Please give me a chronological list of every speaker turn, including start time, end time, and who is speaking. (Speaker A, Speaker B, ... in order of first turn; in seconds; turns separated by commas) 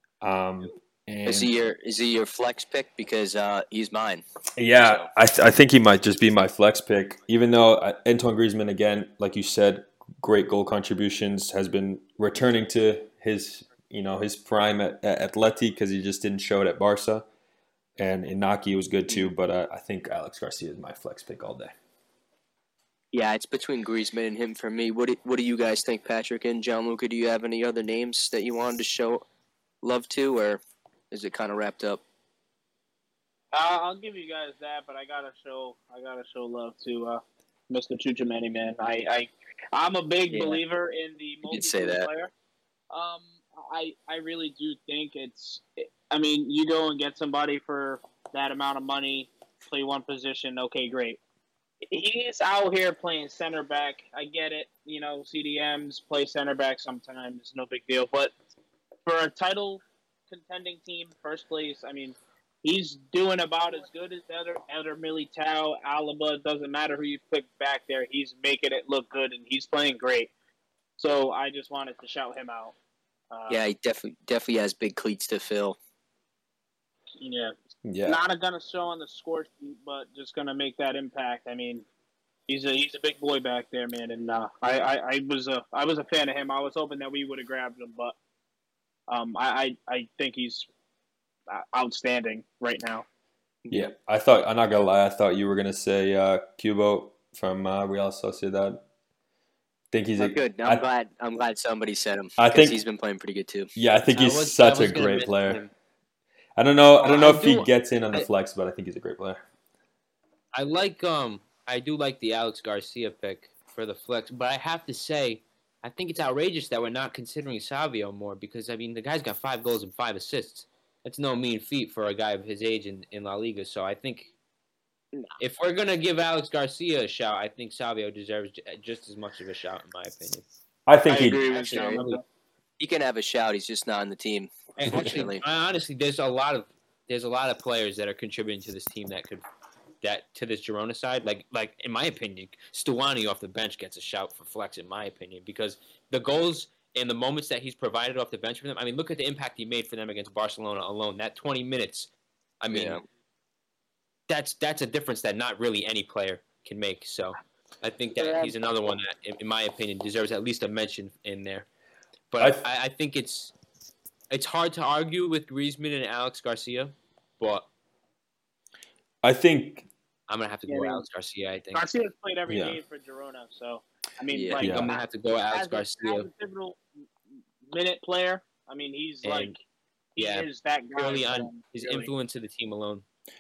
Speaker A: 0.2-1.5, Speaker B: 1.3-4.2, Speaker A: 4.6-17.2, Speaker B: 4.8-5.1, Speaker A: 18.0-21.8, Speaker B: 23.1-29.2, Speaker B: 29.8-32.0, Speaker C: 33.5-42.3, Speaker B: 40.3-40.6, Speaker B: 41.5-42.1, Speaker C: 42.9-51.2, Speaker C: 51.9-58.3, Speaker C: 59.1-70.3, Speaker C: 71.0-72.7, Speaker C: 73.3-73.6, Speaker B: 73.5-75.8, Speaker C: 77.2-81.8, Speaker A: 77.8-78.2, Speaker C: 82.5-88.2, Speaker C: 89.1-90.7, Speaker C: 91.5-93.0, Speaker B: 93.7-93.9, Speaker A: 93.7-98.8, Speaker A: 99.9-100.8, Speaker B: 100.2-103.7, Speaker A: 102.4-102.8, Speaker A: 103.8-105.6, Speaker D: 104.1-105.7, Speaker A: 106.6-109.4, Speaker D: 107.0-108.3, Speaker D: 110.5-124.3, Speaker D: 125.4-130.4, Speaker A: 130.9-131.4, Speaker C: 131.1-132.2, Speaker B: 131.3-132.0, Speaker D: 131.5-132.2, Speaker B: 132.8-135.4, Speaker D: 134.8-139.4, Speaker A: 134.9-135.2, Speaker D: 140.0-152.1, Speaker D: 152.6-153.0, Speaker B: 152.7-153.0, Speaker D: 154.3-161.7, Speaker C: 158.2-158.6, Speaker D: 162.3-163.5, Speaker A: 162.4-162.6, Speaker D: 164.3-167.7, Speaker A: 169.2-169.9, Speaker D: 170.3-171.9, Speaker C: 170.7-171.0, Speaker C: 171.7-176.8, Speaker A: 172.5-172.8, Speaker B: 174.3-174.7, Speaker D: 174.6-176.3, Speaker A: 174.6-174.9, Speaker C: 177.7-179.6, Speaker D: 179.2-179.6, Speaker C: 180.2-182.1, Speaker D: 180.2-183.1